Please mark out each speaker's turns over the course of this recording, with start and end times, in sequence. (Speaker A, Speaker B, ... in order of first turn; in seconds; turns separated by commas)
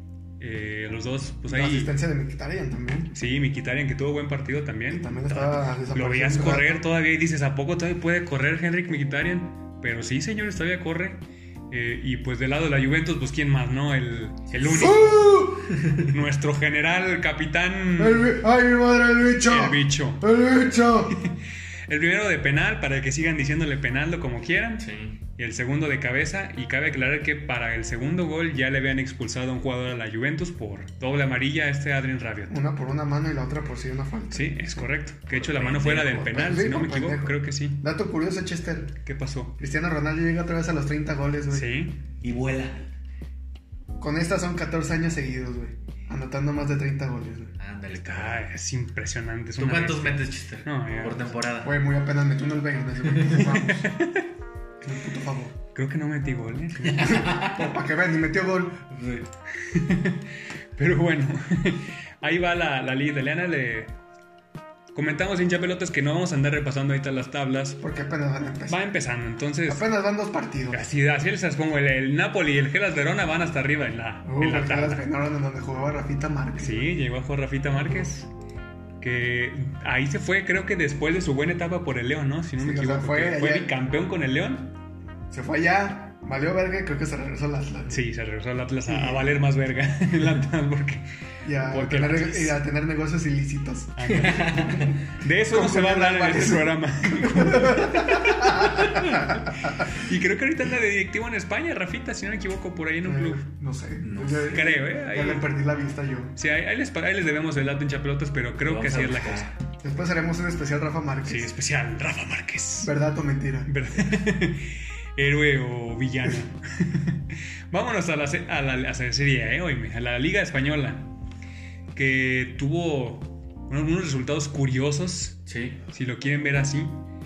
Speaker A: 0.4-1.9, Speaker B: 1.4-3.1, Speaker A: 3.1-18.3, Speaker B: 4.9-6.8, Speaker B: 14.7-15.8, Speaker B: 18.0-21.2, Speaker A: 19.4-20.2, Speaker A: 21.9-32.6, Speaker C: 24.8-25.2, Speaker B: 32.5-39.0, Speaker A: 34.3-37.8, Speaker A: 39.0-39.5, Speaker B: 39.6-41.7, Speaker A: 41.5-42.0, Speaker C: 42.2-42.8, Speaker B: 44.0-47.5, Speaker C: 47.6-48.4, Speaker A: 48.0-51.3, Speaker C: 49.6-51.7, Speaker B: 51.6-53.9, Speaker A: 53.3-54.3, Speaker B: 54.8-55.5, Speaker A: 55.7-57.3, Speaker C: 56.8-57.8, Speaker B: 57.1-58.8, Speaker C: 58.9-59.3, Speaker A: 59.6-63.9, Speaker A: 64.9-67.8, Speaker B: 67.8-68.8, Speaker A: 68.7-69.8, Speaker B: 69.7-70.9, Speaker A: 70.7-75.0, Speaker B: 74.2-77.0, Speaker A: 76.6-78.3, Speaker B: 77.8-78.1, Speaker A: 79.0-84.7, Speaker B: 82.6-83.7, Speaker B: 85.3-88.0, Speaker A: 87.9-91.0, Speaker B: 88.8-89.3, Speaker B: 91.4-95.0, Speaker A: 91.6-92.6, Speaker A: 94.0-103.4, Speaker C: 94.1-95.0, Speaker B: 95.5-99.5, Speaker B: 103.0-106.3, Speaker C: 104.0-104.6, Speaker A: 104.5-105.5, Speaker A: 106.4-109.5, Speaker C: 108.6-109.5, Speaker B: 109.8-111.5, Speaker A: 111.2-112.9, Speaker B: 112.8-113.7, Speaker A: 113.7-121.1, Speaker A: 121.9-125.4, Speaker C: 125.5-125.8, Speaker A: 125.9-127.0